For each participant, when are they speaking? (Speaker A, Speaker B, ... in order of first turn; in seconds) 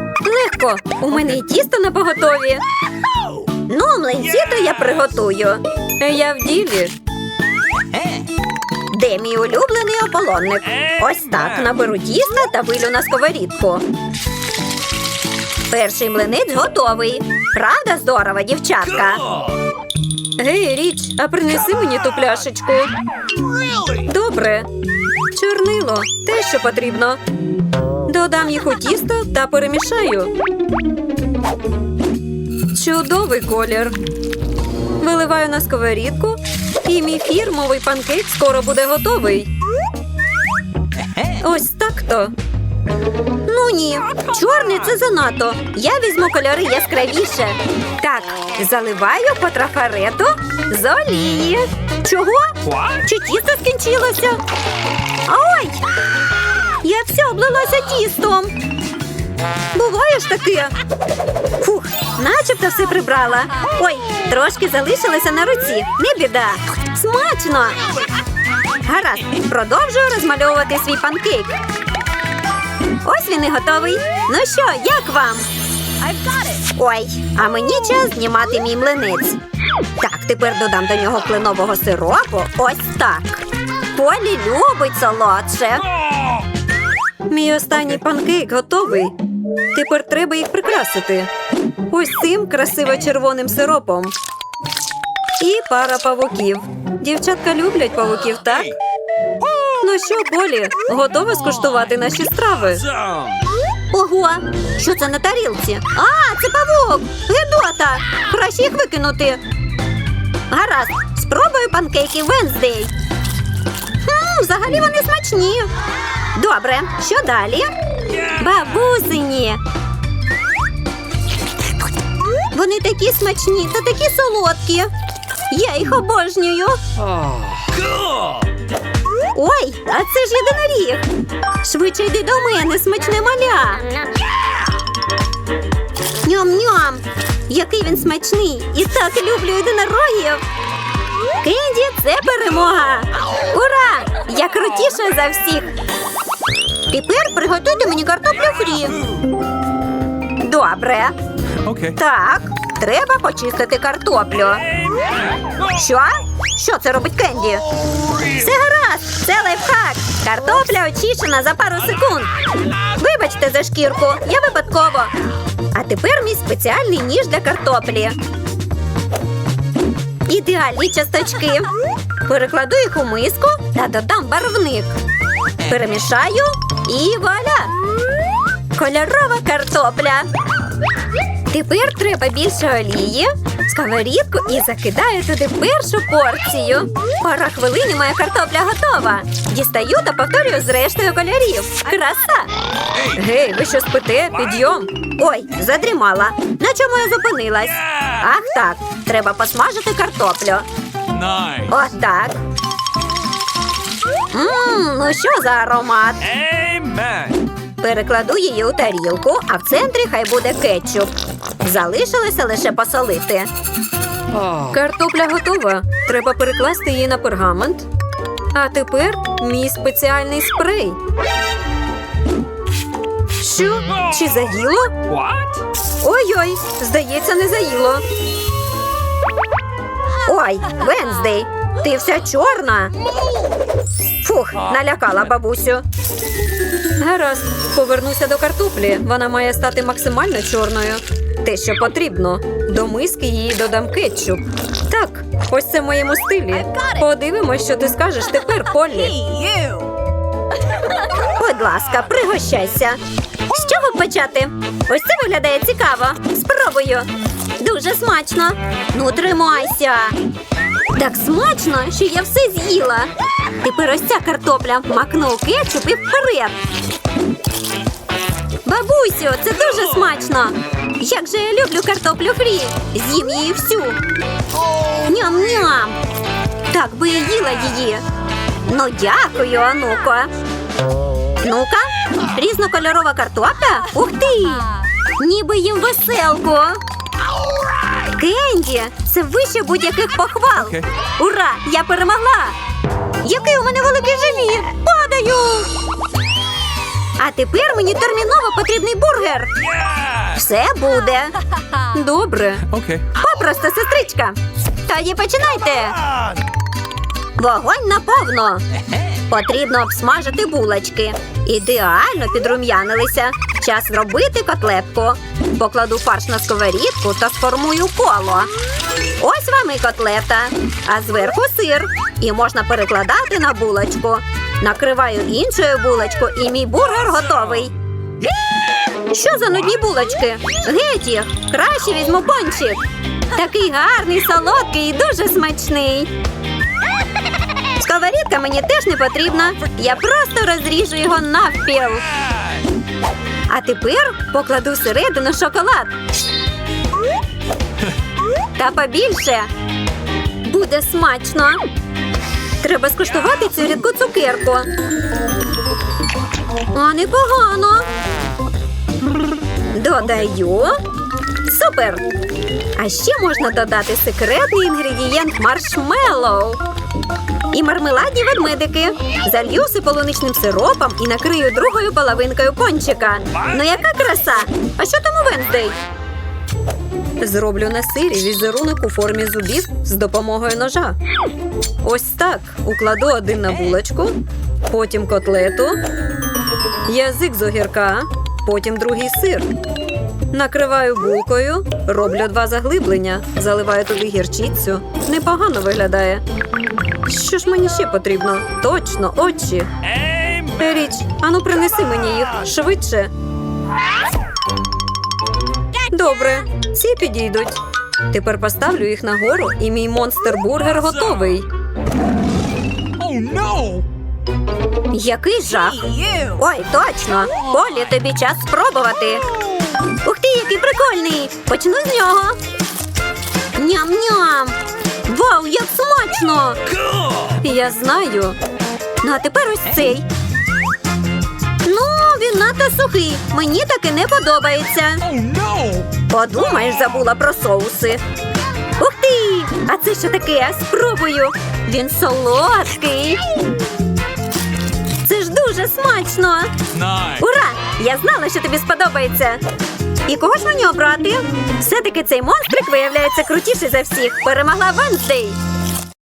Speaker A: 0.2-2.6, 3.7-6.9, 8.9-13.8, 15.7-19.3, 20.4-22.9, 24.0-24.7, 25.3-27.2, 28.1-30.3, 32.7-34.0, 35.0-39.5, 41.2-42.3, 43.5-54.4, 55.3-55.8, 56.8-58.6, 59.7-60.7, 61.6-67.9, 68.8-71.6, 73.0-75.5, 76.0-79.4, 80.0-85.8, 87.3-89.2, 89.7-91.3, 91.9-94.1, 95.4-98.7, 99.8-102.9, 103.9-109.4, 110.5-112.9, 114.0-115.7, 116.4-117.7, 118.2-119.6, 122.5-124.9, 125.5-126.8, 129.3-131.1, 131.6-133.8, 136.2-140.4, 141.4-145.8, 146.9-149.0, 150.4-151.2, 151.8-154.7, 155.6-157.7, 158.2-162.3, 162.8-165.1, 165.7-168.2, 170.3-171.7, 172.2-175.0, 175.6-177.7, 178.7-180.3, 181.5-192.5, 193.0-200.7, 201.7-202.4, 204.3-206.3, 207.8-213.5, 214.6-217.9, 218.5-221.0, 223.4-225.1, 226.0-228.0, 230.2-232.9, 234.2-235.8, 237.0-249.3, 251.2-260.1, 260.9-263.1, 263.6-266.6, 268.6-274.0, 275.0-276.0, 276.7-278.0, 278.7-280.3, 281.4-286.8, 288.1-292.6, 293.2-295.7, 297.2-299.5, 300.3-306.0, 307.4-308.6, 309.3-318.5, 319.2-327.7, 329.1-332.8, 333.3-336.1, 337.8-342.1, 343.5-345.9, 348.6-349.5, 350.4-351.6, 352.6-354.7, 356.7-357.9, 359.7-360.8, 361.4-362.0, 362.8-366.6, 367.5-375.8, 377.2-381.0, 381.8-384.1, 384.7-385.8, 386.9-389.5, 390.3-396.2, 397.1-399.8, 400.5-403.1, 405.9-407.6, 408.1-411.5, 414.9-419.3, 420.0-422.4, 423.6-426.6, 427.4-428.4, 429.0-430.1, 431.6-435.1, 436.1-438.0, 438.8-443.2, 445.0-446.6, 447.2-449.4, 450.1-455.4
Speaker B: 52.7-53.0, 151.7-151.9, 201.1-201.7, 206.4-207.4, 225.1-225.6, 249.3-249.9, 302.7-303.1, 400.1-400.5, 413.0-413.9, 435.1-435.9, 446.7-447.2